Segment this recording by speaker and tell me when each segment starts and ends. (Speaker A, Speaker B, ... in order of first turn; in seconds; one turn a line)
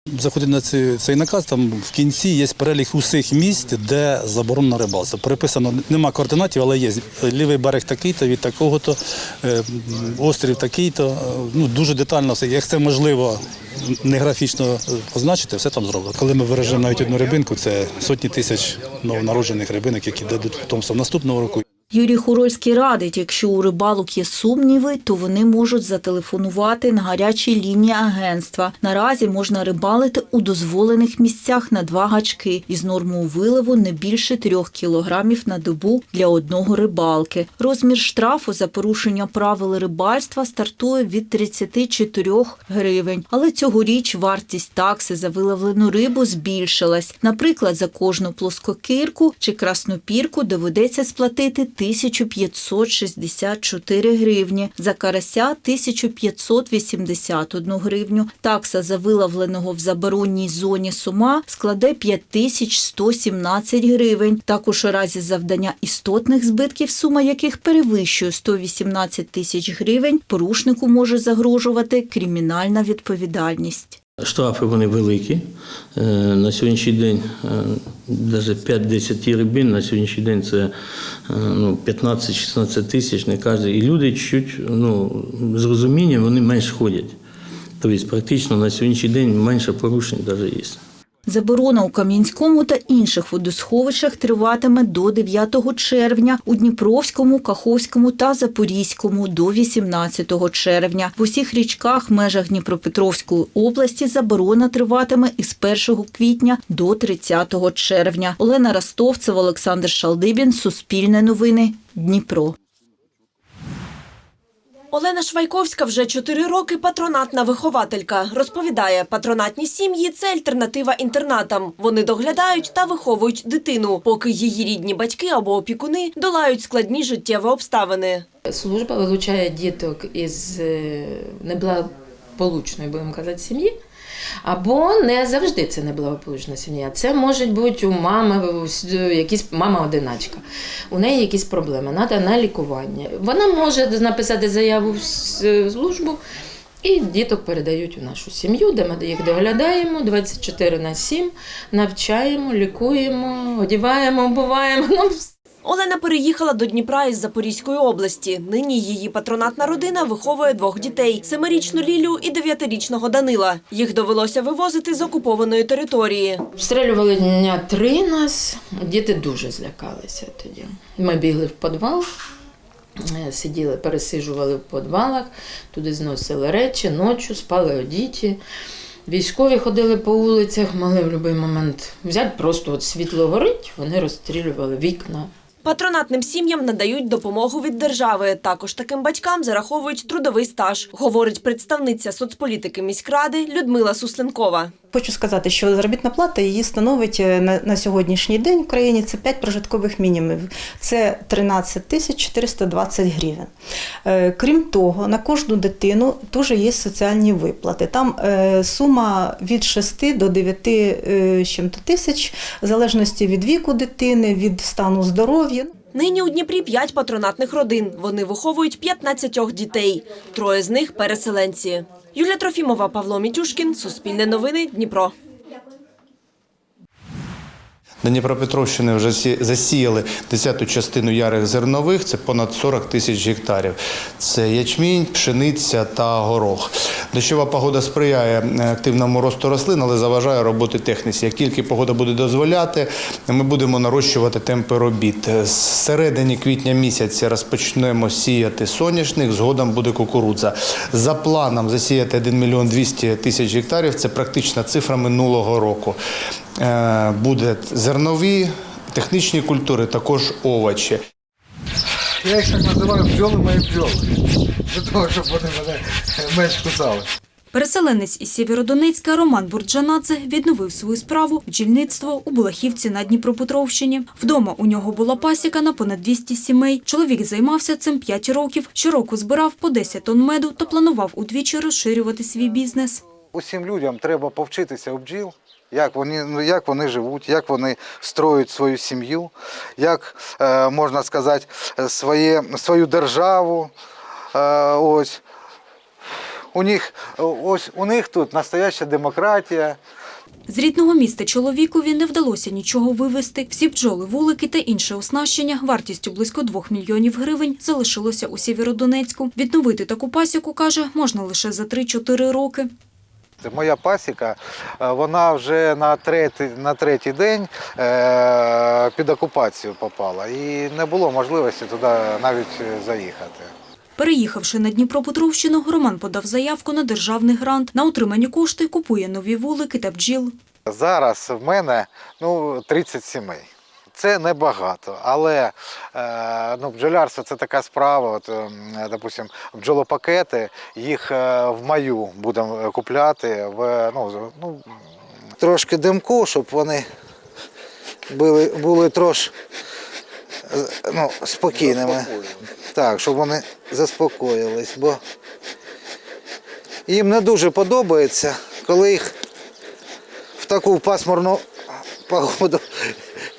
Speaker A: 0.2-21.6
Speaker B: 21.9-74.0
Speaker C: 74.2-80.7
Speaker C: 81.3-87.2
Speaker C: 87.8-90.8
Speaker B: 91.3-112.5
Speaker D: 114.9-128.2
Speaker E: 128.5-133.7
Speaker E: 134.4-146.2
Speaker E: 146.8-155.3
Speaker D: 155.7-166.4
Speaker E: 166.6-172.1
Speaker E: 173.1-178.4
Speaker E: 179.1-185.3
Speaker D: 185.7-194.7
Speaker F: 194.9-203.5
Speaker F: 204.1-215.7
Speaker D: 215.9-225.1
Speaker G: 228.0-256.0
Speaker G: 256.6-261.0
Speaker H: 262.2-264.0
Speaker H: 264.7-267.1
Speaker I: 267.5-283.0
Speaker H: 283.3-293.7
Speaker H: 294.3-295.2
Speaker H: 296.5-299.8
Speaker I: 300.5-312.7
Speaker H: 313.4-323.5
Speaker I: 324.0-330.3
Speaker H: 330.7-333.5
Speaker H: 334.0-344.6
Speaker H: 345.4-346.9
Speaker H: 348.1-349.3
Speaker H: 350.5-352.1
Speaker H: 352.7-355.0
Speaker H: 356.9-359.1
Speaker H: 360.4-361.4
Speaker H: 362.1-362.9